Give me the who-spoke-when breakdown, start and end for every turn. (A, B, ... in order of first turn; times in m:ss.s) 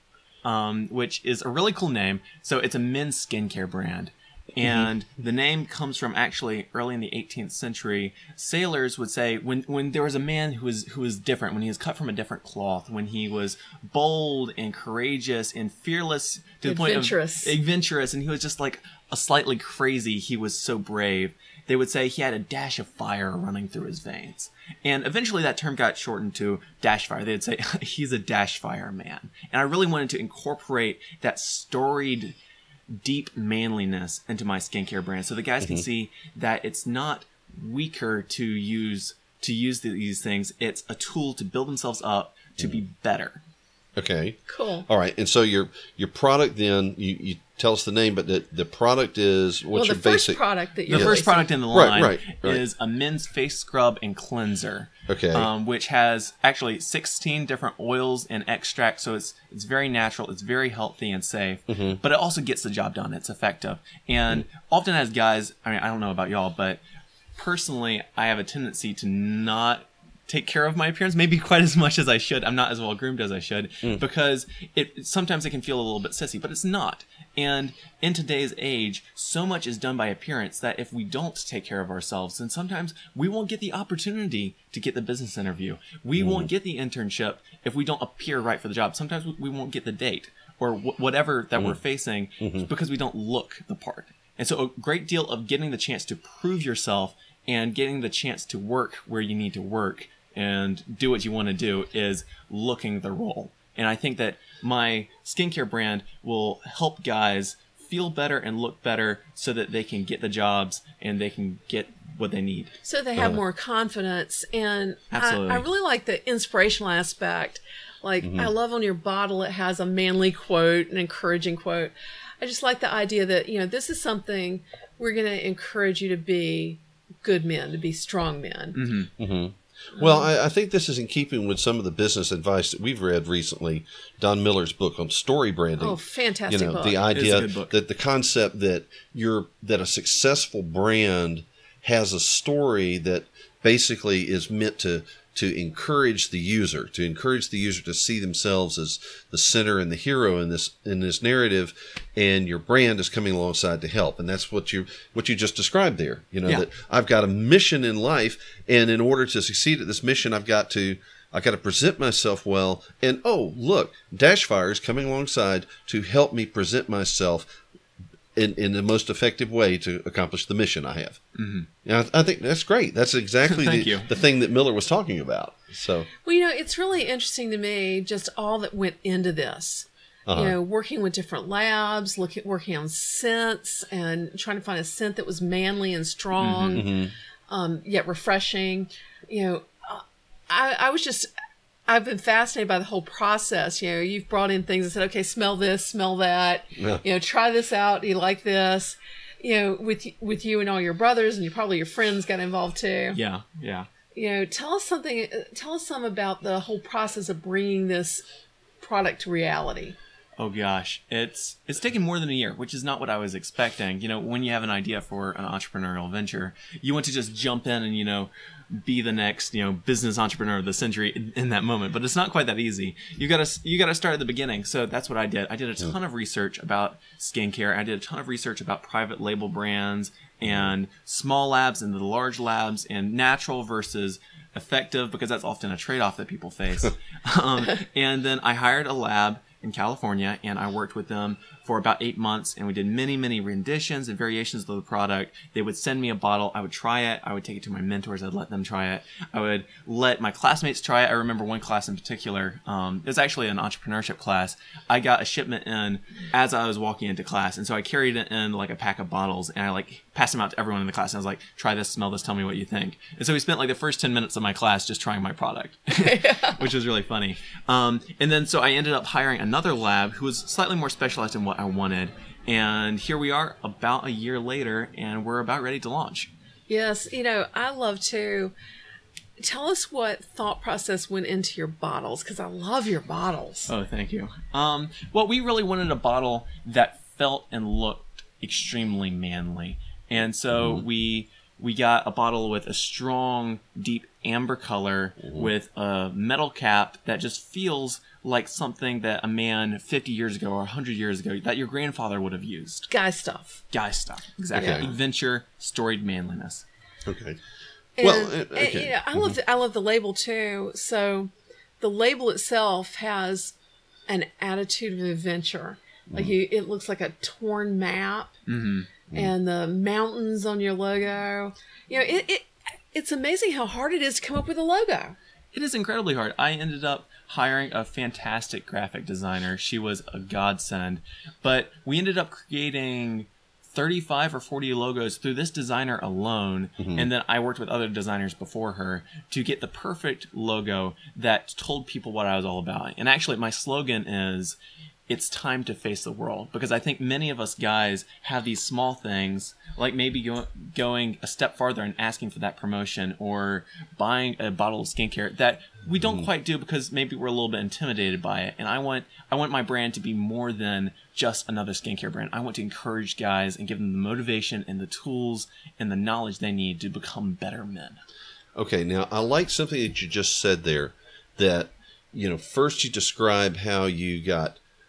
0:00.4-0:32.4 A
0:16.6-0:17.5 B
0:32.9-0:43.4 A
0:44.0-0:50.4 C
0:44.5-0:44.9 B
0:49.7-0:51.5 B
0:50.9-1:06.8 A
0:50.9-0:52.6 C
0:55.1-0:55.5 C
1:01.7-1:02.0 C
1:07.4-1:52.8 A
1:26.2-1:26.5 C
1:32.4-1:32.7 C
1:52.8-2:08.8 B
1:55.1-1:55.6 A
1:58.2-1:58.5 C
2:08.7-2:09.1 A
2:09.2-2:47.6 C
2:10.0-2:10.3 B
2:15.8-2:17.0 B
2:17.1-2:17.7 A
2:48.4-2:51.2 C
2:51.3-2:51.7 A
2:51.8-2:56.1 C
2:53.4-2:54.1 A
2:56.2-3:06.9 B
3:00.3-3:00.6 C
3:06.4-3:06.8 A
3:06.7-3:07.1 C
3:07.5-3:11.3 B
3:11.9-3:23.2 B
3:16.8-3:17.0 C
3:23.1-3:23.9 A
3:24.1-3:28.2 B
3:28.8-3:30.0 B
3:30.4-4:36.3 A
4:26.0-4:26.7 B
4:36.7-4:38.5 B
4:39.4-4:43.7 B
4:43.7-5:02.9 A
4:50.5-4:50.8 C
4:55.2-4:55.5 C
5:02.9-5:03.6 B
5:03.7-5:06.6 A
5:04.5-5:04.9 B
5:04.5-5:04.9 C
5:07.0-5:07.4 C
5:08.0-5:13.5 B
5:08.0-5:09.4 C
5:14.1-5:18.3 B
5:18.5-5:18.9 A
5:19.1-5:25.2 B
5:25.5-5:44.6 A
5:36.8-5:37.1 C
5:45.1-6:08.0 A
6:08.6-6:14.6 C